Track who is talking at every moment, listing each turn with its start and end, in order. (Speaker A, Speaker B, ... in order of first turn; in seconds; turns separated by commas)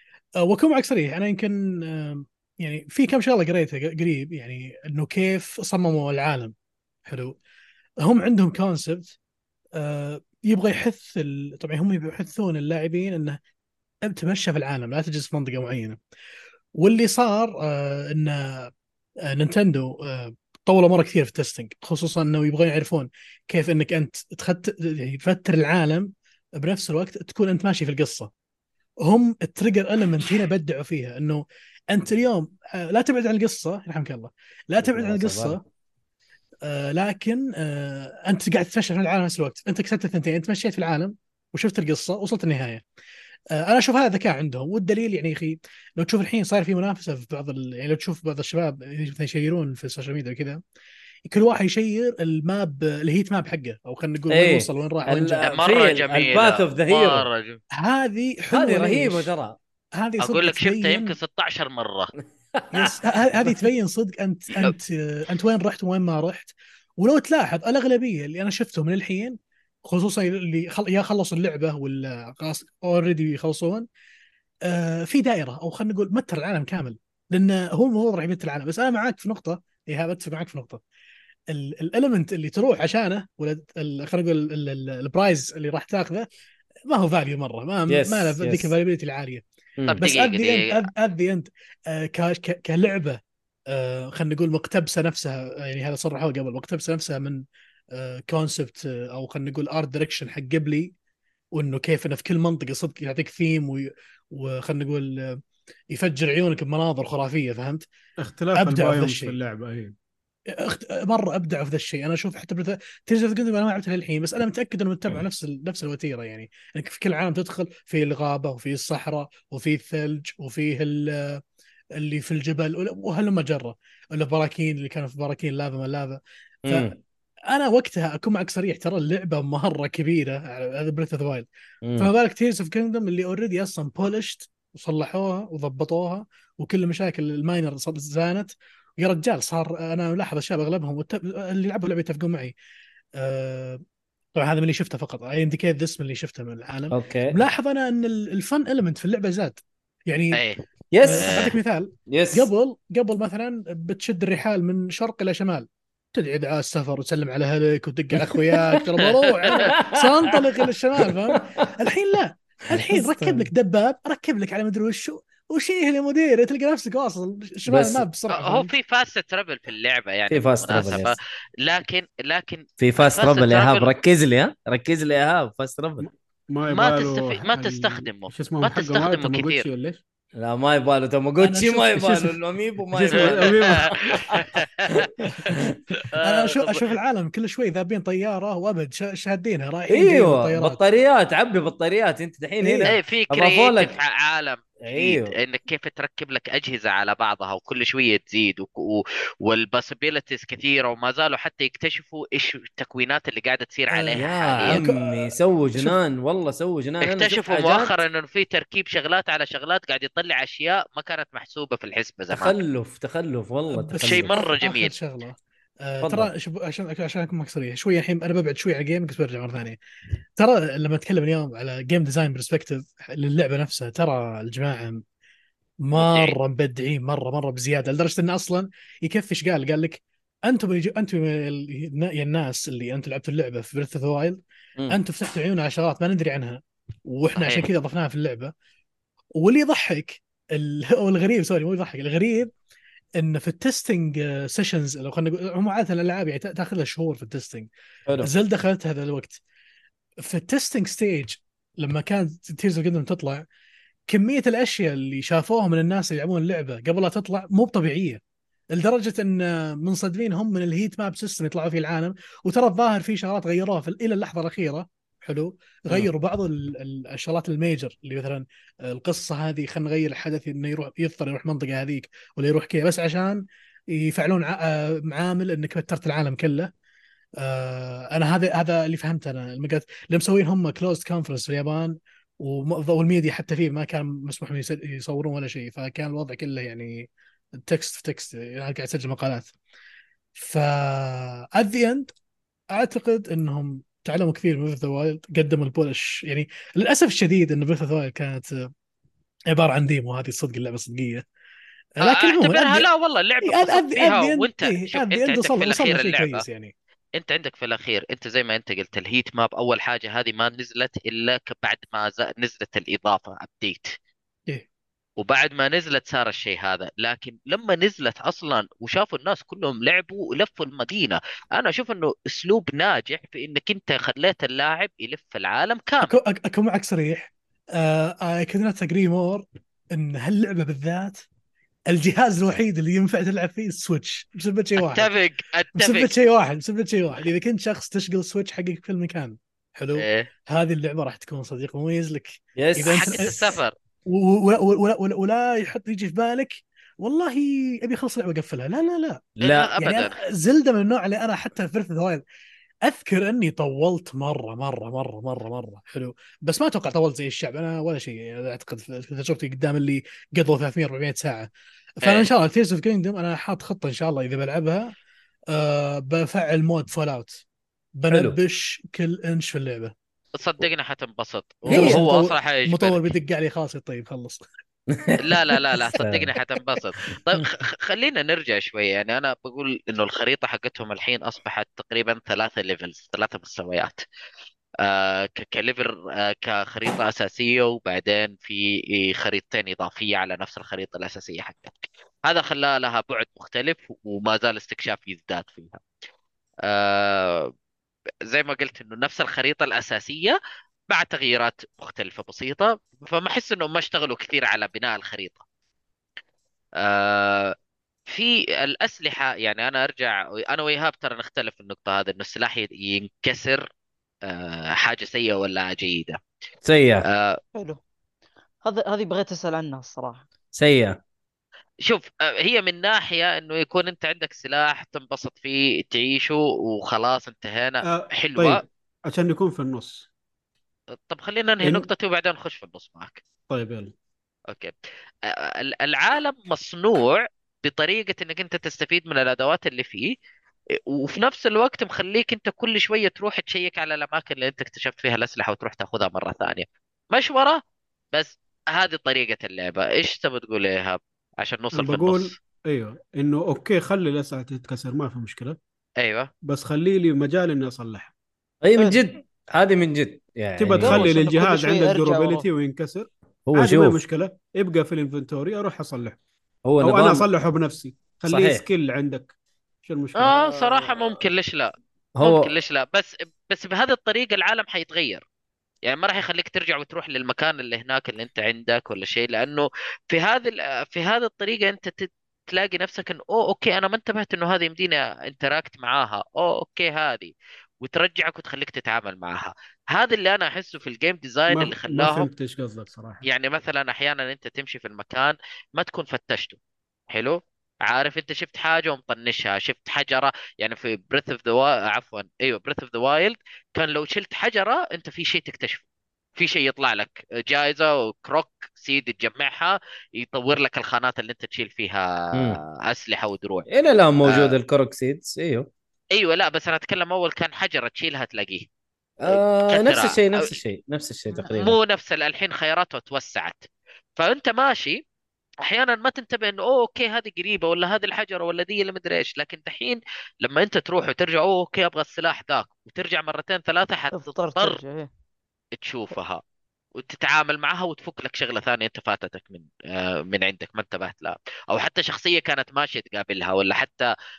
Speaker A: 0.4-6.5, Speaker A: 7.0-7.4, Speaker A: 8.0-9.2, Speaker A: 9.8-13.4, Speaker A: 14.1-16.0, Speaker A: 16.7-18.7, Speaker A: 19.2-28.3, Speaker A: 29.0-35.6, Speaker B: 34.8-35.6, Speaker A: 36.6-42.8, Speaker A: 43.5-50.6, Speaker A: 51.3-55.5, Speaker B: 54.3-57.3, Speaker C: 55.4-57.6, Speaker A: 57.7-59.3, Speaker B: 58.5-59.5, Speaker A: 60.0-61.1, Speaker C: 60.2-62.1, Speaker B: 62.5-63.0, Speaker A: 62.7-73.9, Speaker A: 74.6-80.8, Speaker A: 81.5-86.3, Speaker A: 86.9-89.4, Speaker B: 87.9-88.7, Speaker C: 89.8-90.8, Speaker A: 90.0-100.9, Speaker A: 101.5-105.4, Speaker A: 105.9-107.8, Speaker D: 108.2-109.9, Speaker A: 108.5-109.3, Speaker A: 110.5-121.4, Speaker A: 122.0-127.0, Speaker B: 126.7-127.0, Speaker A: 127.5-142.5, Speaker B: 131.8-132.1, Speaker A: 143.2-143.8, Speaker A: 144.3-150.4, Speaker B: 146.9-147.4, Speaker C: 150.3-151.5, Speaker B: 150.9-151.5, Speaker A: 151.0-168.7, Speaker B: 152.1-152.5, Speaker B: 158.2-158.8, Speaker C: 159.0-159.6, Speaker B: 159.5-161.7, Speaker B: 162.7-163.5, Speaker B: 167.7-168.0, Speaker C: 168.3-173.9, Speaker B: 170.3-171.2, Speaker B: 172.8-176.1, Speaker D: 176.0-180.0, Speaker C: 176.7-179.7, Speaker B: 180.3-185.8, Speaker A: 181.4-182.0, Speaker D: 182.0-182.3, Speaker D: 182.9-183.9, Speaker C: 183.2-183.6, Speaker C: 184.1-185.6, Speaker A: 185.2-185.6, Speaker C: 186.2-186.9, Speaker A: 186.2-190.8, Speaker B: 189.9-193.9, Speaker A: 192.6-192.9, Speaker C: 192.9-204.8, Speaker B: 194.8-195.3, Speaker A: 203.9-206.0, Speaker B: 204.2-207.9, Speaker C: 207.0-212.6, Speaker B: 212.3-214.4, Speaker A: 213.7-219.8, Speaker C: 214.0-214.9, Speaker B: 216.0-216.3, Speaker A: 220.4-225.0, Speaker A: 225.8-238.5, Speaker C: 225.9-226.4, Speaker C: 237.4-237.7, Speaker A: 239.3-242.5, Speaker A: 243.2-247.7, Speaker B: 248.1-248.3, Speaker A: 248.2-249.4, Speaker A: 250.2-253.4, Speaker A: 254.1-258.2, Speaker A: 258.7-276.7, Speaker A: 277.4-289.5, Speaker A: 290.3-292.1, Speaker A: 292.7-298.7, Speaker A: 299.5-301.2, Speaker A: 302.0-302.9, Speaker C: 302.0-306.4, Speaker A: 303.4-306.7, Speaker C: 307.2-313.9, Speaker C: 315.2-326.1, Speaker A: 326.0-331.2, Speaker A: 331.9-335.1, Speaker C: 334.8-336.1, Speaker A: 335.7-352.2, Speaker C: 339.9-340.3, Speaker B: 342.6-343.4, Speaker C: 342.8-343.7, Speaker B: 349.4-349.7, Speaker C: 349.4-350.1, Speaker A: 352.8-361.5, Speaker A: 362.0-364.9, Speaker C: 362.0-362.3, Speaker A: 365.5-367.4, Speaker A: 367.9-369.9, Speaker B: 368.1-368.4, Speaker C: 370.3-373.0, Speaker B: 371.7-372.0, Speaker A: 371.7-374.4, Speaker B: 374.9-376.3, Speaker C: 375.2-384.0, Speaker C: 384.8-395.8, Speaker C: 396.6-397.5, Speaker C: 398.2-400.4, Speaker C: 400.9-405.4, Speaker C: 406.8-407.5, Speaker C: 408.1-413.6, Speaker C: 414.2-416.2, Speaker B: 416.6-417.1, Speaker C: 417.0-417.4, Speaker E: 417.5-417.8, Speaker E: 418.6-420.2, Speaker B: 420.5-421.0, Speaker C: 421.8-428.6, Speaker D: 427.8-430.1, Speaker C: 430.9-433.2, Speaker D: 431.6-431.9, Speaker D: 433.5-433.9, Speaker C: 434.5-434.7, Speaker C: 435.2-440.1, Speaker C: 440.9-447.6, Speaker C: 448.1-452.4, Speaker D: 451.7-455.6, Speaker C: 456.0-456.3, Speaker D: 456.4-458.1, Speaker B: 458.6-461.1, Speaker D: 460.6-466.2, Speaker E: 460.8-462.5, Speaker B: 463.5-464.0, Speaker B: 466.6-467.3, Speaker D: 466.8-470.4, Speaker B: 468.2-468.6, Speaker C: 470.1-475.2, Speaker B: 470.2-471.2, Speaker B: 472.2-472.5, Speaker C: 475.8-492.3, Speaker D: 491.5-493.2, Speaker C: 493.2-496.6, Speaker C: 497.1-505.8, Speaker C: 506.4-513.7, Speaker B: 512.3-512.6, Speaker B: 513.7-515.7, Speaker C: 514.2-514.5, Speaker C: 516.1-518.7, Speaker B: 519.2-521.8, Speaker C: 519.2-520.5, Speaker C: 521.3-525.0, Speaker C: 525.6-534.8, Speaker E: 534.1-535.1, Speaker C: 535.7-536.4, Speaker C: 536.9-544.1